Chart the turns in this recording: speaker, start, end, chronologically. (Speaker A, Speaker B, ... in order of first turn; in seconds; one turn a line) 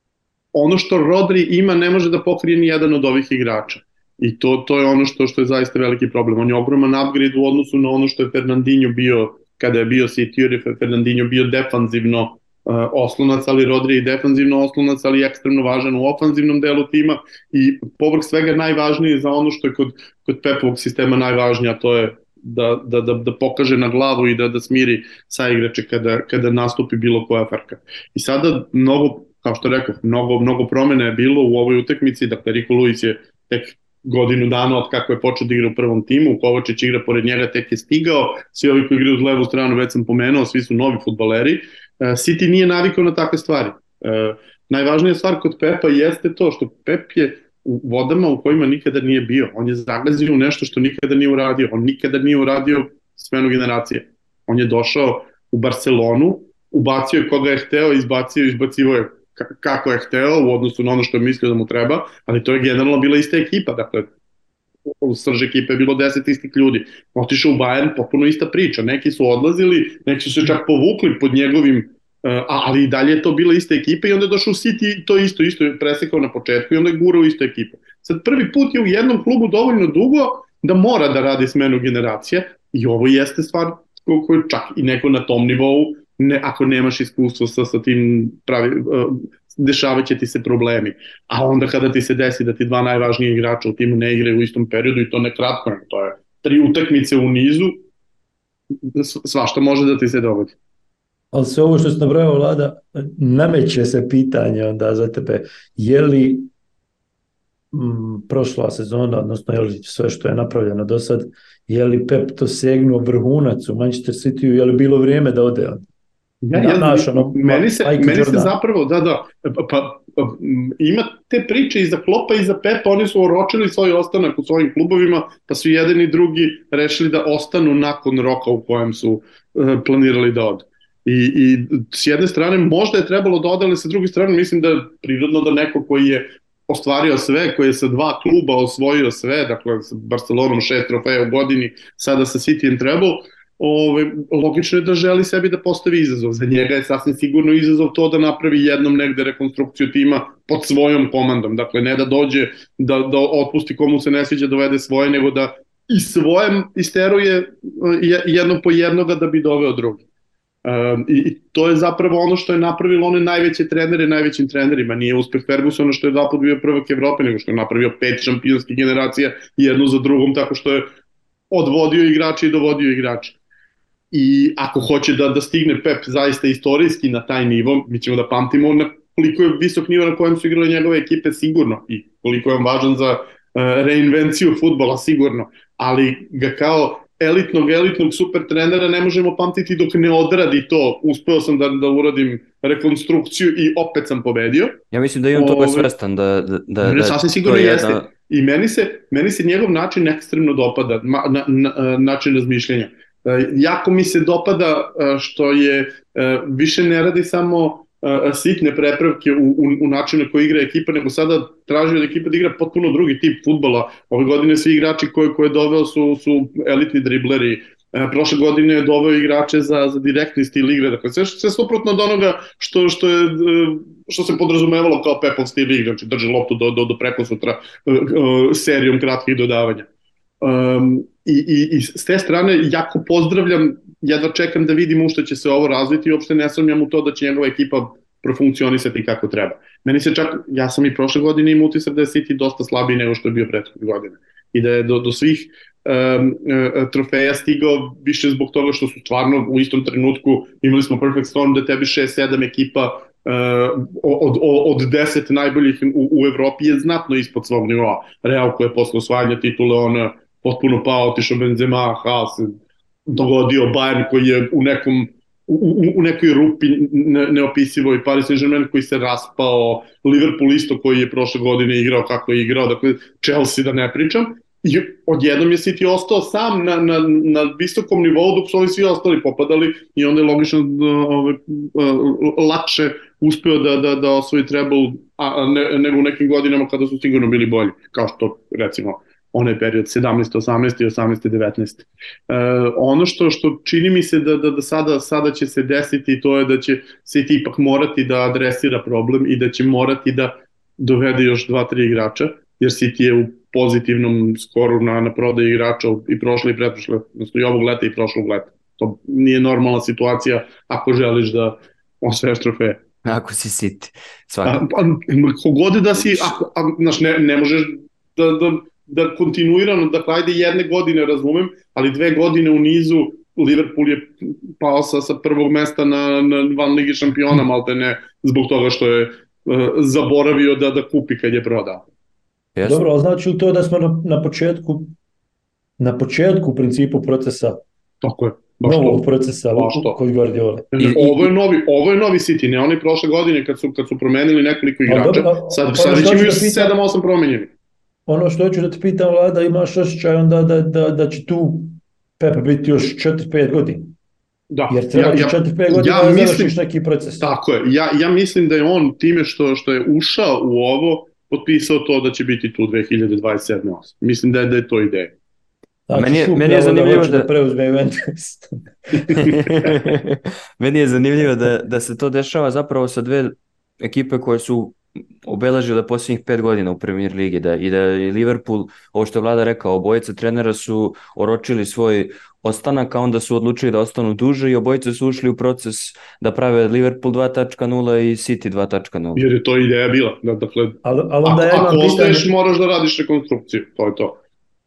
Speaker A: 0.5-64.1
Speaker A: 64.9-97.8
Speaker A: 98.9-100.6
Speaker B: 101.3-106.5
Speaker B: 107.7-115.8
Speaker A: 116.4-160.0
Speaker B: 116.5-118.5
Speaker A: 160.6-170.9
Speaker A: 171.5-173.4
Speaker A: 174.1-194.8
Speaker C: 194.9-198.1
Speaker A: 195.3-195.9
Speaker A: 196.8-229.9
Speaker A: 230.4-312.8
Speaker C: 313.1-314.6
Speaker A: 314.4-331.8
Speaker C: 316.1-316.4
Speaker C: 332.6-332.8
Speaker B: 332.6-334.9
Speaker B: 335.8-337.6
Speaker A: 338.0-339.0
Speaker B: 338.6-341.3
Speaker A: 339.5-340.0
Speaker A: 340.8-347.5
Speaker B: 344.9-346.7
Speaker B: 348.1-353.9
Speaker A: 354.5-356.6
Speaker B: 354.7-357.3
Speaker A: 357.2-365.1
Speaker B: 365.9-369.6
Speaker C: 365.9-367.3
Speaker C: 369.3-389.2
Speaker A: 389.1-394.2
Speaker B: 390.8-392.3